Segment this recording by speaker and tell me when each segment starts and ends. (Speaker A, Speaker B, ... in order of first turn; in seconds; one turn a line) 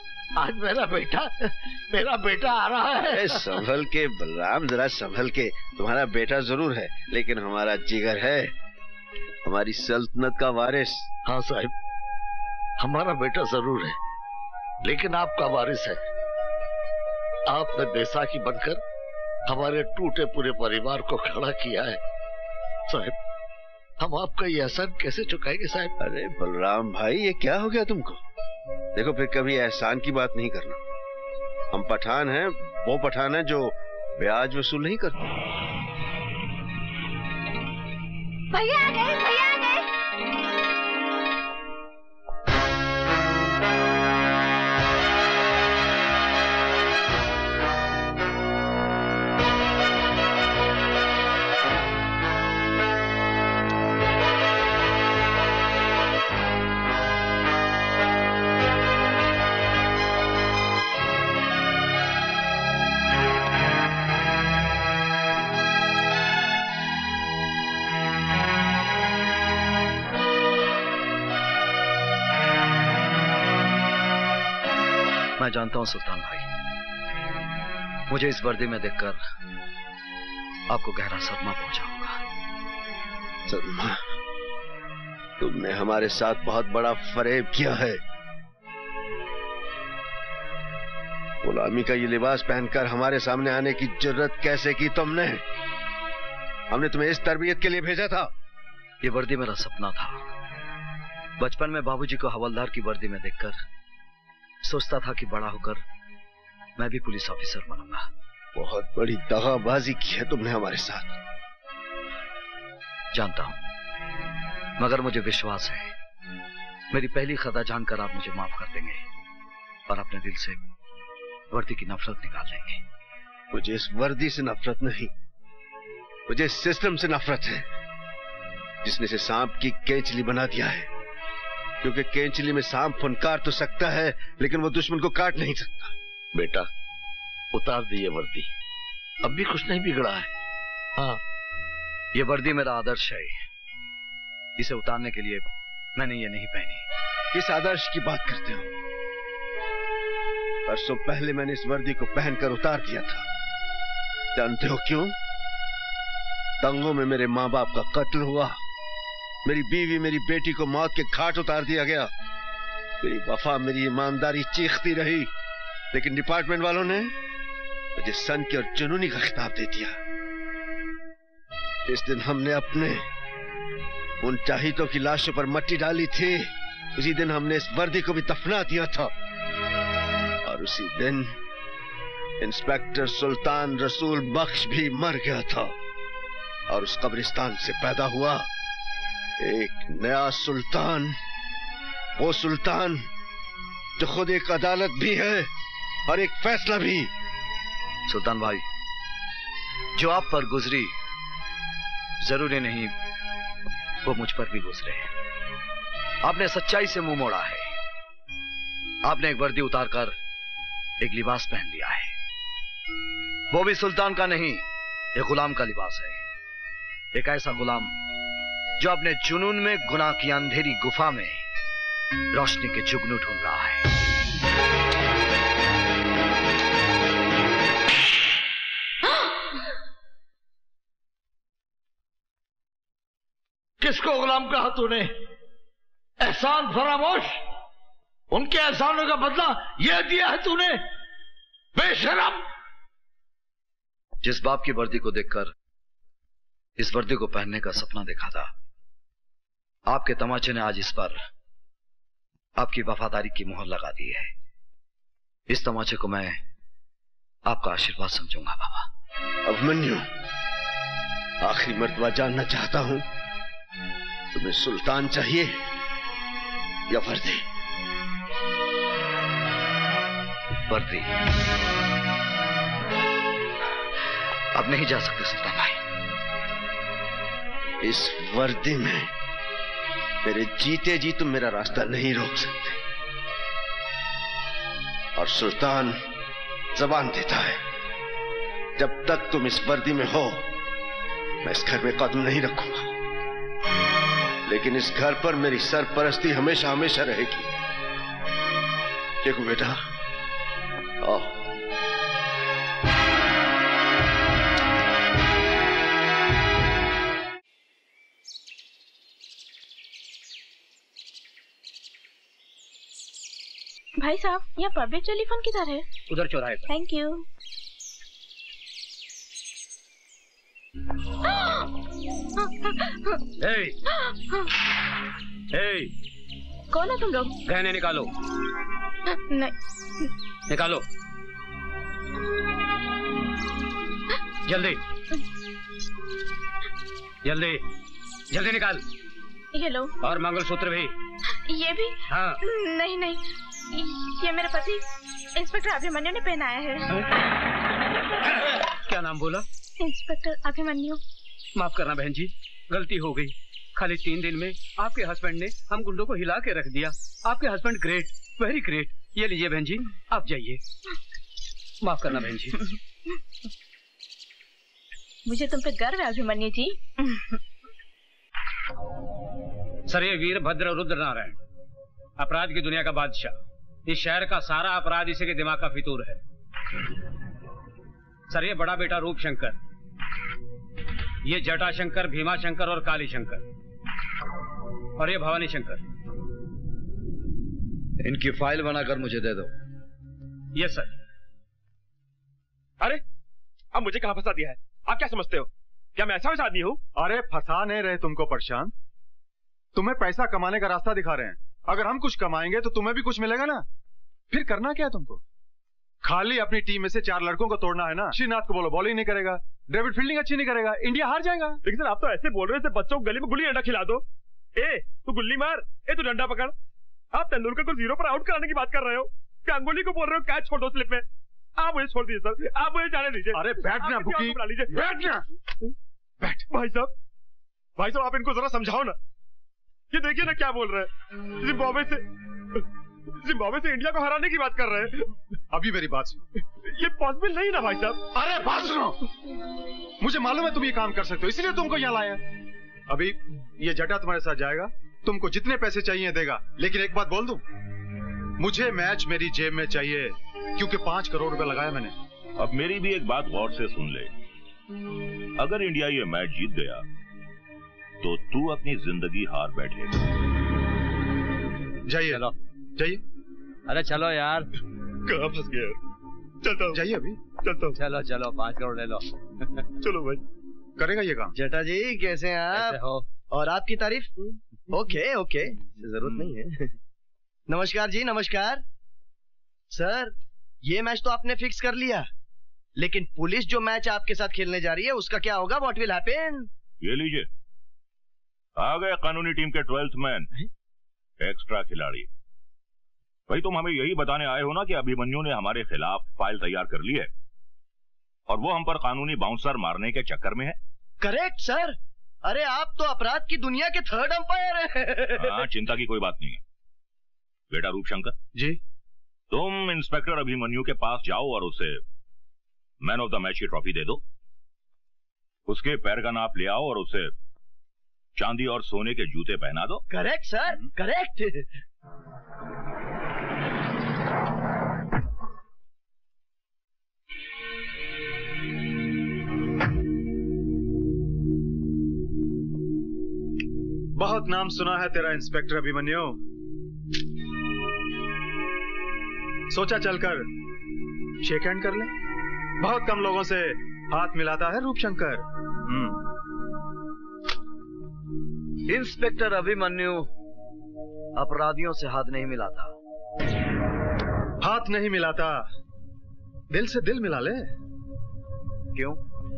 Speaker A: 0.4-3.5
Speaker B: 3.1-8.5
Speaker B: 9.4-11.1
Speaker A: 11.2-11.7
Speaker A: 12.8-14.0
Speaker A: 14.8-16.0
Speaker A: 17.5-18.8
Speaker A: 19.5-22.0
Speaker A: 22.9-23.1
Speaker A: 24.0-25.9
Speaker B: 26.0-28.2
Speaker B: 28.9-30.8
Speaker B: 31.7-35.3
Speaker C: 75.4-76.5
Speaker C: 78.1-79.2
Speaker C: 80.7-82.2
Speaker B: 83.5-84.0
Speaker B: 85.4-88.0
Speaker B: 91.4-95.4
Speaker B: 96.7-98.3
Speaker C: 99.0-100.2
Speaker C: 101.4-103.6
Speaker C: 104.6-105.8
Speaker C: 106.8-108.1
Speaker B: 108.5-111.1
Speaker C: 113.1-113.6
Speaker C: 114.8-115.9
Speaker C: 116.9-119.0
Speaker C: 119.9-120.6
Speaker C: 121.5-122.8
Speaker B: 123.5-125.1
Speaker B: 126.3-127.7
Speaker B: 128.8-130.9
Speaker B: 131.8-135.9
Speaker A: 136.3-136.7
Speaker A: 137.5-138.5
Speaker A: 139.2-140.3
Speaker C: 142.1-143.4
Speaker C: 144.6-146.8
Speaker B: 147.3-148.7
Speaker B: 150.7-153.2
Speaker B: 154.3-155.1
Speaker B: 156.6-158.6
Speaker B: 159.4-162.1
Speaker B: 163.0-165.3
Speaker B: 165.9-167.1
Speaker B: 167.9-170.0
Speaker B: 171.9-173.0
Speaker B: 174.2-179.1
Speaker B: 180.4-181.3
Speaker B: 182.4-185.7
Speaker B: 186.7-188.4
Speaker B: 189.4-191.2
Speaker B: 192.2-193.0
Speaker B: 194.0-195.5
Speaker B: 196.1-197.1
Speaker C: 198.1-198.6
Speaker C: 199.9-200.9
Speaker C: 202.2-202.9
Speaker C: 204.0-205.1
Speaker C: 206.2-207.7
Speaker C: 209.0-210.2
Speaker C: 211.0-212.1
Speaker C: 213.5-214.6
Speaker C: 215.2-216.2
Speaker C: 217.1-217.9
Speaker C: 218.8-221.4
Speaker C: 222.3-223.8
Speaker A: 233.8-235.1
Speaker A: 236.2-237.3
Speaker A: 238.3-240.8
Speaker A: 241.8-242.4
Speaker C: 244.2-245.5
Speaker C: 246.8-248.5
Speaker C: 249.9-251.2
Speaker C: 252.6-254.3
Speaker C: 255.5-256.4
Speaker C: 257.4-258.9
Speaker B: 259.4-260.1
Speaker B: 261.4-263.0
Speaker B: 264.3-265.6
Speaker B: 266.9-267.4
Speaker B: 270.7-271.1
Speaker C: 274.5-275.8
Speaker B: 277.8-279.1
Speaker B: 280.2-282.8
Speaker B: 285.2-286.0
Speaker B: 286.8-287.6
Speaker B: 288.8-290.5
Speaker B: 291.4-292.9
Speaker B: 294.5-297.5
Speaker B: 299.2-299.8
Speaker B: 301.0-301.4
Speaker D: 314.0-315.8
Speaker E: 316.1-316.7
Speaker D: 316.7-317.2
Speaker E: 323.4-323.8
Speaker E: 325.5-325.9
Speaker D: 326.7-327.3
Speaker E: 327.4-328.1
Speaker D: 329.3-329.5
Speaker E: 330.5-330.8
Speaker E: 334.5-334.8
Speaker E: 337.2-337.6
Speaker E: 338.3-338.8
Speaker D: 339.5-339.9
Speaker E: 340.0-340.9
Speaker D: 341.5-341.9
Speaker E: 342.1-342.4
Speaker D: 342.4-343.2
Speaker D: 344.1-344.8
Speaker D: 345.4-346.8
Speaker E: 348.9-349.4
Speaker D: 349.8-351.0
Speaker E: 351.6-360.6
Speaker E: 361.8-362.6
Speaker D: 365.2-366.8
Speaker E: 369.9-371.4
Speaker E: 372.2-373.4
Speaker E: 373.9-376.2
Speaker E: 378.3-379.6
Speaker E: 381.2-383.4
Speaker E: 385.0-385.8
Speaker C: 388.0-389.5
Speaker E: 390.6-390.9
Speaker F: 393.7-396.8
Speaker G: 397.0-398.7
Speaker G: 399.8-403.6
Speaker G: 404.3-405.2
Speaker G: 406.0-411.6
Speaker F: 411.6-414.0
Speaker F: 414.6-416.5
Speaker F: 417.1-421.0
Speaker F: 421.6-425.1
Speaker G: 423.3-424.4
Speaker F: 426.3-426.9
Speaker F: 427.8-429.0
Speaker F: 429.9-432.0
Speaker F: 433.2-435.1
Speaker G: 435.5-436.2
Speaker F: 436.6-438.2
Speaker G: 440.0-442.2
Speaker G: 442.9-447.4
Speaker G: 448.4-451.9
Speaker H: 452.4-454.1
Speaker H: 455.4-456.8
Speaker H: 458.0-460.0
Speaker G: 461.9-462.2
Speaker I: 463.7-464.5
Speaker F: 465.1-465.6
Speaker G: 466.7-467.2
Speaker I: 467.7-469.0
Speaker G: 470.8-471.3
Speaker J: 471.3-474.1
Speaker I: 472.5-473.0
Speaker J: 474.7-476.7
Speaker J: 477.5-478.6
Speaker J: 479.7-482.1
Speaker J: 482.8-486.5
Speaker H: 486.8-487.3
Speaker H: 488.6-490.3
Speaker H: 491.2-492.1
Speaker H: 493.3-497.1
Speaker H: 498.3-500.6
Speaker J: 501.0-505.3
Speaker H: 505.2-506.4
Speaker H: 507.5-508.1
Speaker H: 509.3-511.8
Speaker H: 512.8-514.0
Speaker H: 515.5-517.1
Speaker H: 518.2-519.8
Speaker J: 519.9-521.5
Speaker G: 534.0-536.1
Speaker G: 539.5-540.2
Speaker G: 541.2-541.9
Speaker G: 542.6-546.0
Speaker C: 548.7-550.1
Speaker C: 551.1-552.7
Speaker G: 554.4-555.4
Speaker G: 556.5-557.4